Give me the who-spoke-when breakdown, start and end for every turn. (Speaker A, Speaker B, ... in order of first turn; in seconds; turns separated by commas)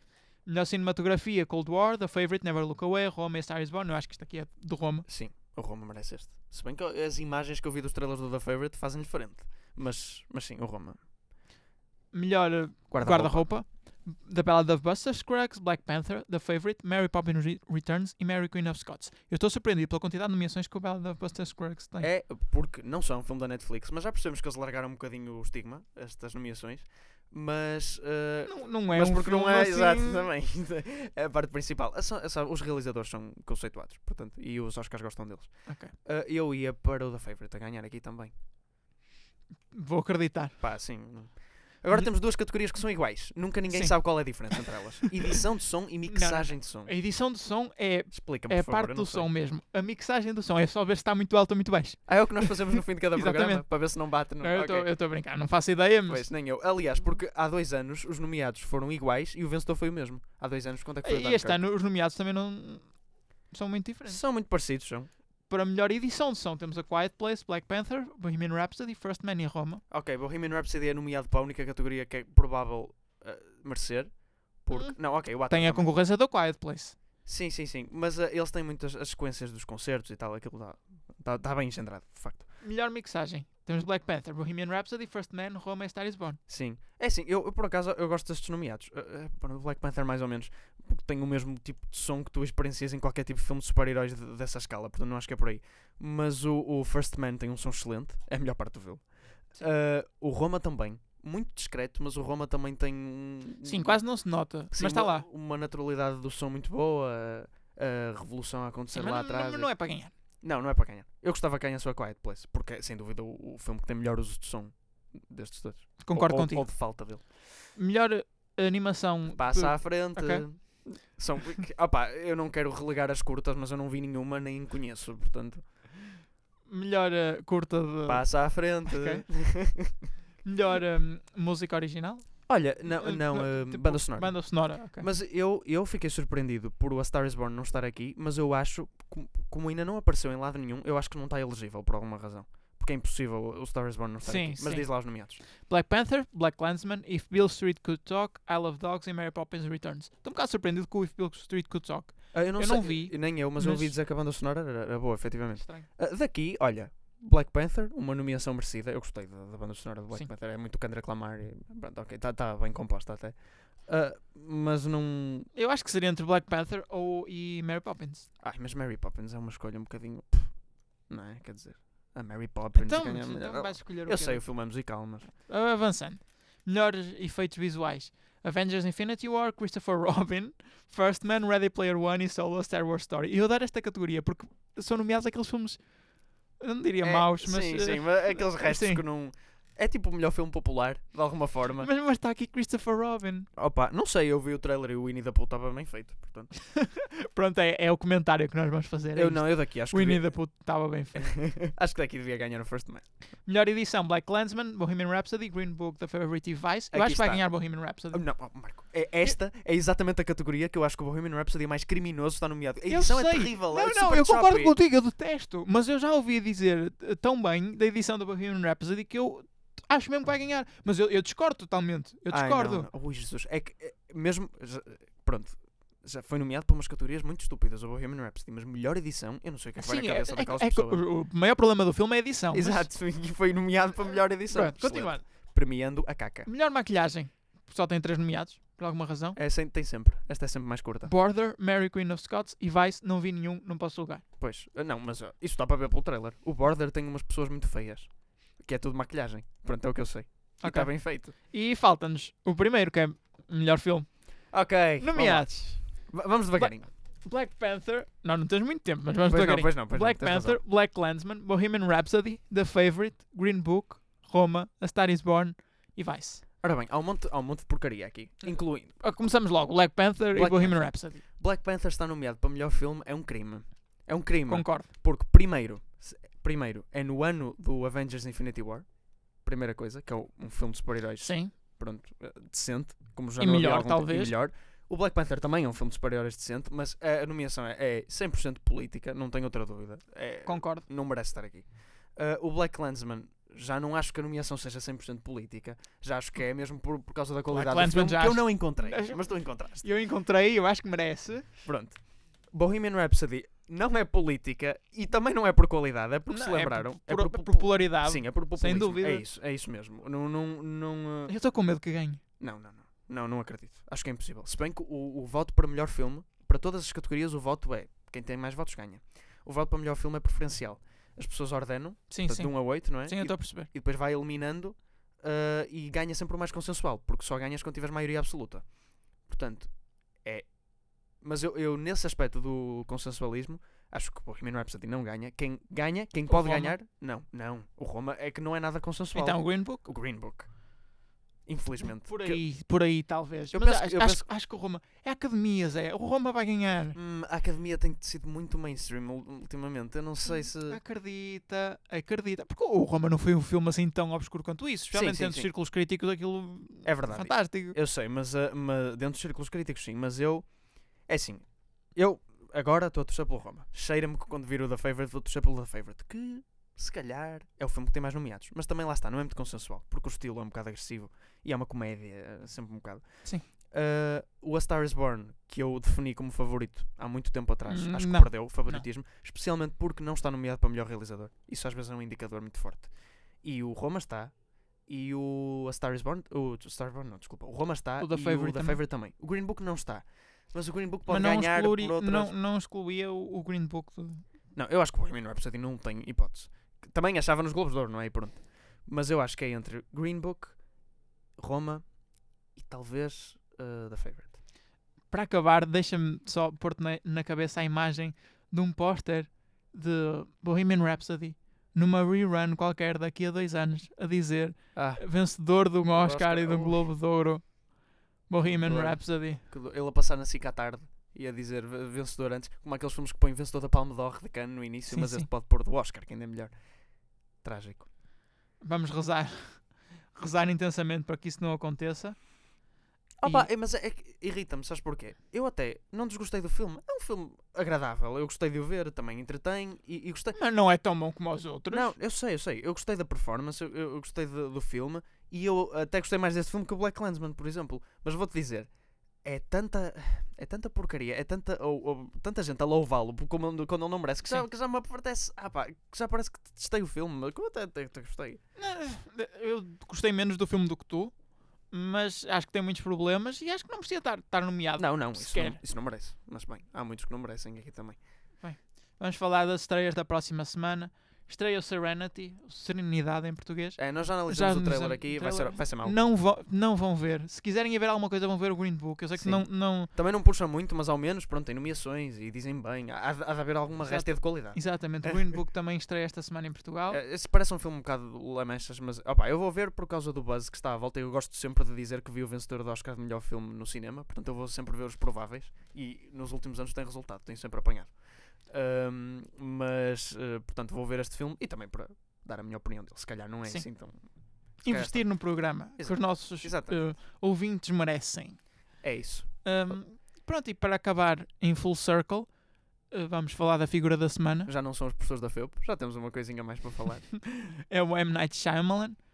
Speaker A: 0.4-5.0, Speaker B: 5.0-11.0, Speaker A: 12.1-22.1, Speaker B: 12.9-13.5, Speaker B: 22.0-38.3, Speaker A: 28.4-30.3, Speaker A: 35.7-35.9, Speaker A: 39.7-40.6, Speaker B: 40.6-46.9, Speaker A: 43.7-44.6, Speaker A: 46.1-56.3, Speaker B: 48.1-49.3, Speaker B: 52.1-54.9, Speaker B: 56.1-61.6, Speaker A: 61.0-63.0, Speaker A: 63.5-64.2, Speaker B: 64.0-65.1, Speaker A: 65.5-69.8, Speaker B: 69.9-75.9, Speaker A: 74.7-77.0, Speaker B: 77.2-82.5, Speaker A: 82.6-86.4, Speaker B: 86.5-104.0, Speaker A: 103.6-105.2, Speaker B: 104.7-109.7, Speaker A: 108.9-110.1, Speaker B: 110.4-117.2, Speaker A: 116.0-116.9, Speaker A: 117.7-120.8, Speaker B: 119.3-125.9, Speaker A: 126.7-129.3, Speaker B: 128.1-129.9, Speaker A: 130.4-135.1, Speaker B: 132.5-145.4, Speaker A: 144.2-153.9, Speaker B: 152.3-165.5, Speaker A: 155.6-155.9, Speaker A: 165.5-168.3, Speaker B: 168.4-175.3, Speaker A: 172.7-185.9, Speaker A: 186.6-189.0, Speaker B: 187.0-191.9, Speaker A: 191.8-193.5, Speaker B: 193.6-196.5, Speaker A: 196.7-201.3, Speaker B: 199.1-200.3, Speaker B: 201.2-203.1, Speaker A: 203.4-208.5, Speaker B: 206.9-214.7, Speaker A: 212.9-222.9, Speaker B: 222.3-231.0, Speaker A: 229.8-232.9, Speaker B: 232.5-236.5, Speaker A: 234.5-235.2, Speaker A: 236.4-239.4, Speaker B: 239.3-241.1, Speaker A: 241.0-244.2, Speaker B: 244.4-251.3, Speaker A: 250.6-266.4, Speaker B: 254.5-256.9, Speaker B: 259.2-260.6, Speaker B: 266.6-269.0, Speaker A: 268.4-271.2, Speaker B: 270.3-299.8, Speaker A: 274.5-274.9, Speaker A: 281.2-281.5, Speaker A: 283.4-284.3, Speaker A: 290.4-290.8, Speaker A: 297.5-301.5, Speaker B: 301.6-311.3, Speaker A: 306.3-309.2, Speaker A: 311.3-312.2, Speaker B: 312.4-340.7, Speaker A: 322.1-323.7, Speaker A: 336.2-336.8, Speaker A: 339.1-339.8, Speaker B: 341.4-342.4, Speaker A: 342.1-347.0, Speaker B: 343.5-344.3, Speaker B: 346.9-350.8, Speaker A: 350.2-357.8, Speaker B: 354.9-355.5, Speaker B: 356.8-360.5, Speaker B: 361.0-384.3, Speaker A: 377.7-378.9, Speaker B: 384.9-392.3, Speaker A: 388.0-388.8, Speaker A: 391.1-394.2, Speaker B: 394.5-400.6, Speaker B: 401.4-401.9, Speaker B: 402.5-404.4, Speaker A: 405.1-419.4, Speaker B: 414.7-416.9, Speaker B: 418.4-426.6, Speaker A: 424.9-425.3, Speaker B: 427.4-427.9, Speaker A: 428.6-432.2, Speaker B: 433.2-440.4, Speaker A: 440.3-441.9, Speaker B: 441.7-448.7, Speaker B: 449.2-458.4, Speaker A: 458.6-461.1, Speaker A: 461.7-465.6, Speaker B: 464.8-468.0, Speaker A: 468.4-479.9, Speaker B: 473.8-476.0, Speaker B: 479.2-485.3, Speaker A: 483.8-487.0, Speaker B: 486.9-506.8, Speaker A: 504.6-508.5, Speaker B: 508.8-509.8, Speaker A: 509.4-512.3, Speaker A: 512.9-514.5, Speaker B: 514.5-517.1, Speaker A: 517.7-519.0